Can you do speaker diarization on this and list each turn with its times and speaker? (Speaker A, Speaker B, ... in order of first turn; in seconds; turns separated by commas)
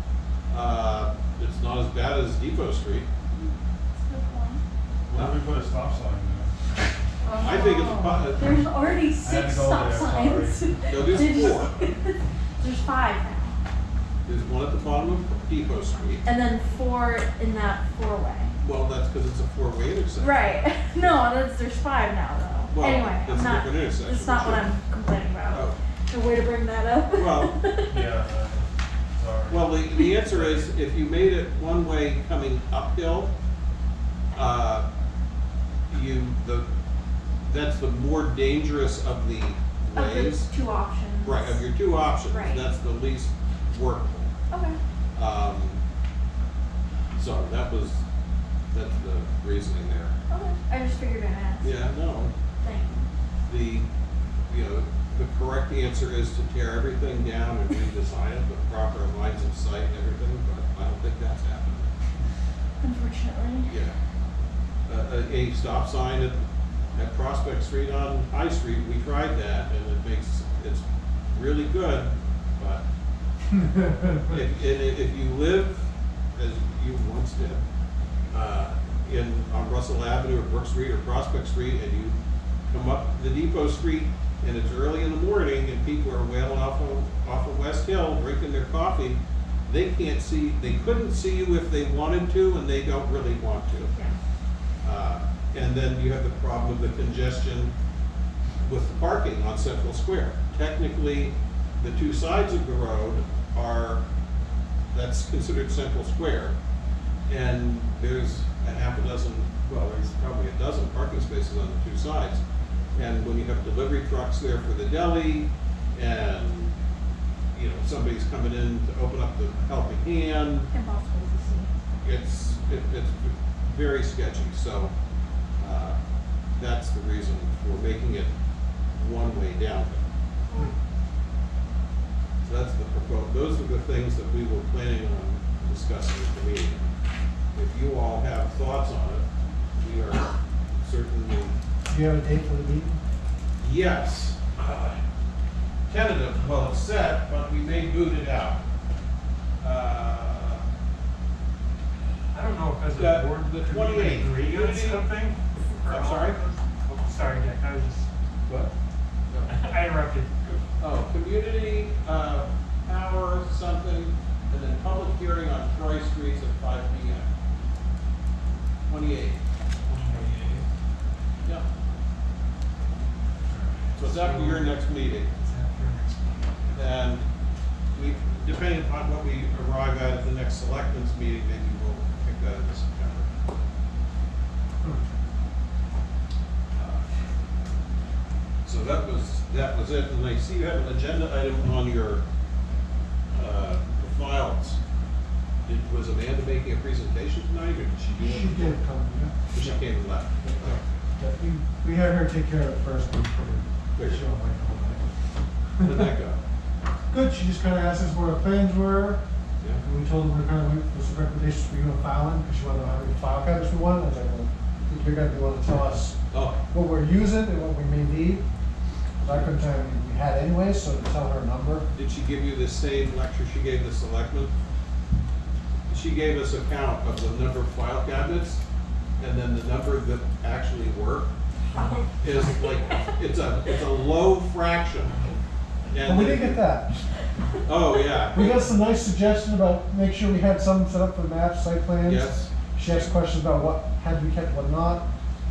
Speaker A: 0.5-3.1, Speaker B: 3.3-4.6, Speaker C: 5.1-6.5, Speaker B: 7.2-13.6, Speaker A: 7.4-8.5, Speaker C: 9.2-11.5, Speaker A: 10.9-11.8, Speaker A: 14.2-16.2, Speaker B: 16.2-18.5, Speaker A: 18.6-20.6, Speaker B: 20.2-28.0, Speaker A: 22.7-24.7, Speaker A: 25.5-25.8, Speaker A: 27.1-27.6, Speaker C: 27.9-28.6, Speaker C: 29.1-30.7, Speaker A: 29.5-33.3, Speaker A: 34.3-34.9, Speaker A: 35.9-36.7, Speaker A: 37.4-40.5, Speaker B: 39.9-41.6, Speaker A: 41.2-44.3, Speaker B: 42.2-42.7, Speaker B: 44.5-44.8, Speaker A: 45.1-45.8, Speaker A: 47.1-48.0, Speaker A: 48.7-50.1, Speaker B: 50.3-51.7, Speaker A: 51.6-52.3, Speaker B: 52.6-53.1, Speaker A: 53.5-53.9, Speaker A: 54.5-61.9, Speaker B: 62.8-63.7, Speaker A: 63.6-64.0, Speaker A: 64.9-66.4, Speaker A: 66.9-72.8, Speaker D: 73.6-74.4, Speaker A: 74.3-77.6, Speaker A: 78.3-82.2, Speaker A: 82.7-93.9, Speaker B: 93.9-94.2, Speaker A: 94.8-97.7, Speaker A: 98.6-104.0, Speaker A: 104.9-106.5, Speaker A: 107.3-112.4, Speaker A: 112.9-116.7, Speaker A: 117.5-120.7, Speaker B: 120.7-121.7, Speaker A: 122.0-124.9, Speaker A: 125.6-126.0, Speaker A: 126.6-128.3, Speaker A: 129.0-130.0, Speaker A: 132.4-136.9, Speaker A: 137.5-139.2, Speaker A: 139.8-141.5, Speaker D: 141.9-143.0, Speaker A: 143.6-145.0, Speaker A: 145.9-148.6, Speaker A: 149.6-150.6, Speaker E: 152.3-158.1, Speaker A: 152.9-155.1, Speaker A: 155.8-156.4, Speaker E: 159.5-160.6, Speaker A: 160.8-167.3, Speaker A: 168.9-169.4, Speaker E: 169.9-170.6, Speaker E: 173.9-174.7, Speaker A: 173.9-175.3, Speaker E: 175.4-176.4, Speaker A: 176.7-177.2, Speaker A: 177.9-183.3, Speaker A: 186.7-187.0, Speaker A: 188.6-192.2, Speaker A: 193.3-194.8, Speaker A: 195.7-198.8, Speaker D: 198.1-199.8, Speaker A: 199.5-200.8, Speaker D: 200.4-205.1, Speaker A: 203.9-204.2, Speaker D: 205.8-206.1, Speaker A: 205.8-206.4, Speaker D: 207.1-209.2, Speaker D: 209.8-216.2, Speaker A: 216.3-216.6, Speaker D: 216.7-218.4, Speaker D: 219.2-221.9, Speaker A: 219.2-219.5, Speaker A: 221.9-224.5, Speaker A: 225.9-228.6, Speaker A: 229.2-231.3, Speaker B: 231.7-233.0, Speaker A: 232.2-235.3, Speaker A: 235.9-236.7, Speaker D: 236.0-237.0, Speaker A: 237.7-238.7, Speaker D: 238.3-245.1, Speaker A: 242.0-243.1